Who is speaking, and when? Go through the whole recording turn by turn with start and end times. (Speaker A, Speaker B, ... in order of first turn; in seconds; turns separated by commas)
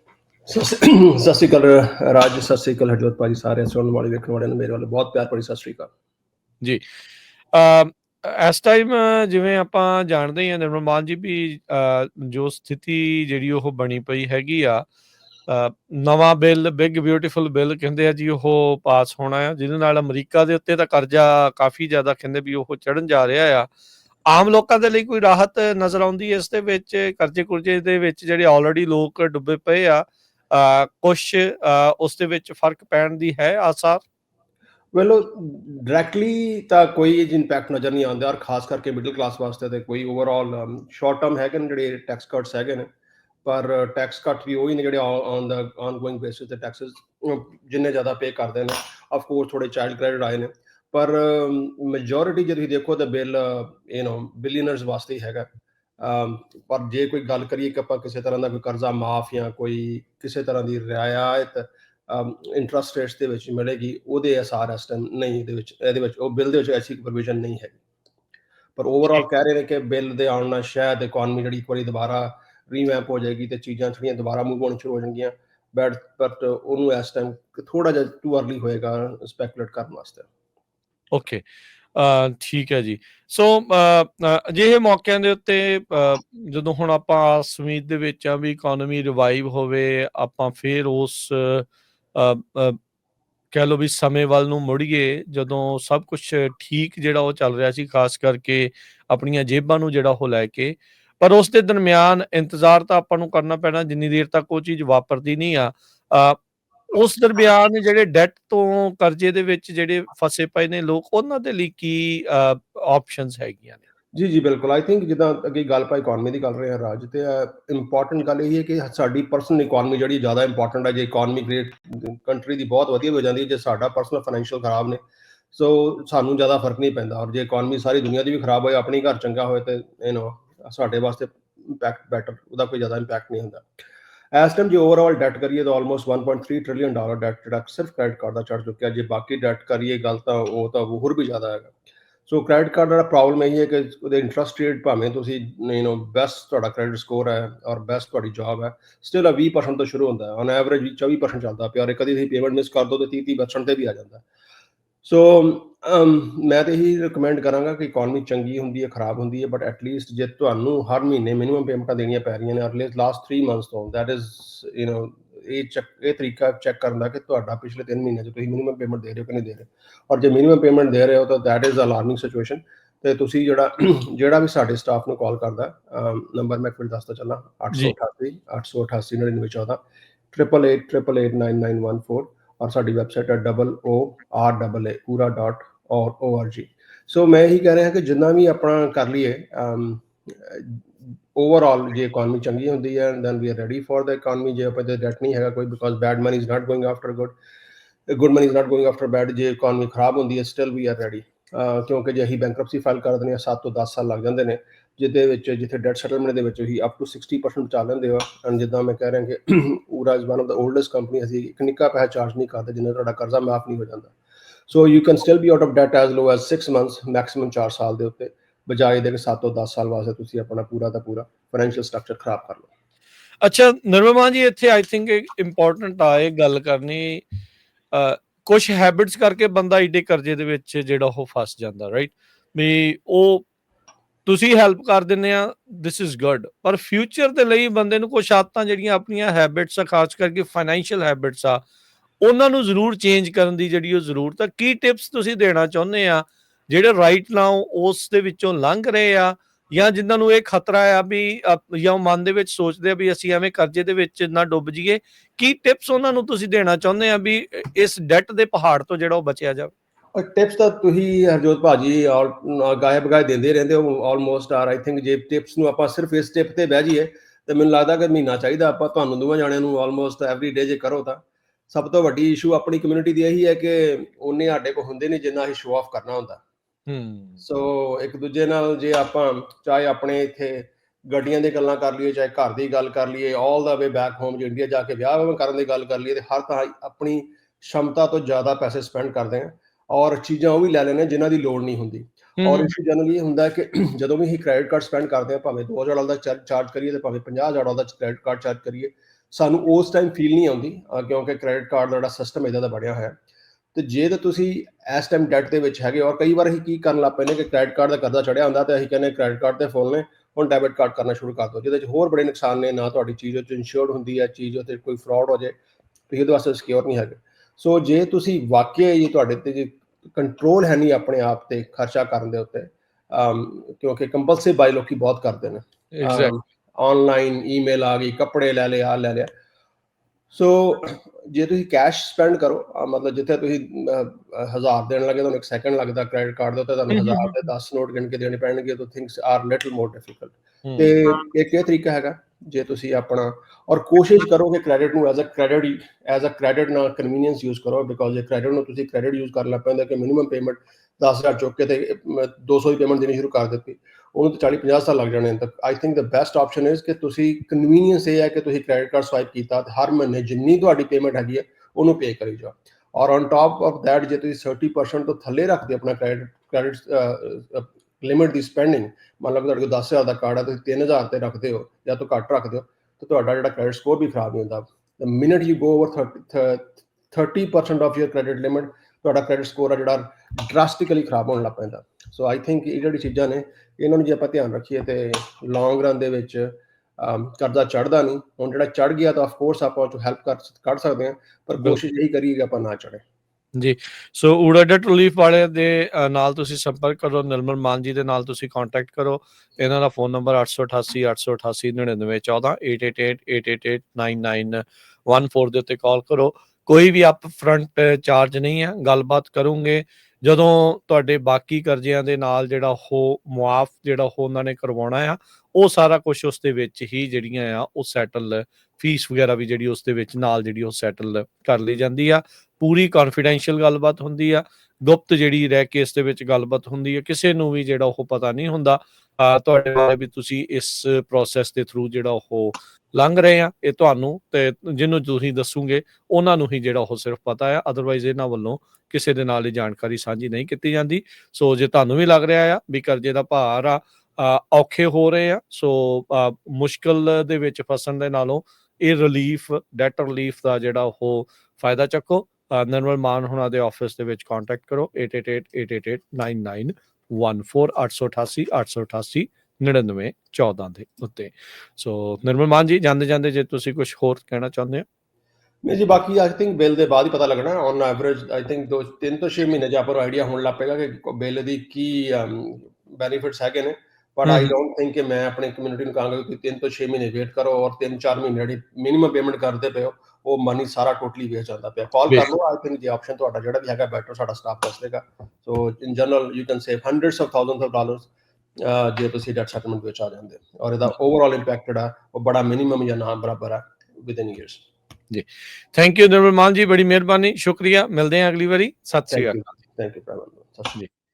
Speaker A: 0.5-5.9, Speaker B: 7.5-14.9, Speaker B: 15.5-23.7, Speaker B: 24.3-34.0, Speaker A: 34.9-42.9, Speaker A: 43.4-55.5, Speaker A: 56.0-67.8, Speaker A: 68.8-80.3, Speaker B: 81.1-81.4, Speaker B: 81.9-92.8, Speaker B: 93.5-106.4, Speaker B: 106.9-113.8, Speaker A: 114.1-125.0, Speaker A: 125.5-133.7, Speaker A: 134.3-141.7, Speaker A: 142.3-154.2, Speaker A: 155.0-179.8, Speaker A: 180.3-190.8, Speaker A: 191.3-197.3, Speaker A: 198.1-214.1, Speaker A: 214.7-222.7, Speaker B: 223.4-227.2, Speaker B: 227.9-233.4, Speaker B: 234.2-241.6, Speaker B: 242.2-259.7, Speaker A: 260.1-276.4, Speaker B: 276.9-277.4, Speaker A: 277.4-303.1, Speaker B: 292.4-292.7, Speaker A: 303.7-315.5, Speaker A: 316.1-329.3, Speaker B: 325.9-326.4, Speaker A: 330.3-393.0, Speaker B: 336.9-337.3, Speaker B: 340.6-340.9, Speaker B: 393.6-464.8, Speaker A: 465.6-488.1, Speaker B: 474.2-474.5, Speaker A: 488.6-494.6, Speaker B: 495.1-499.4, Speaker A: 499.1-500.8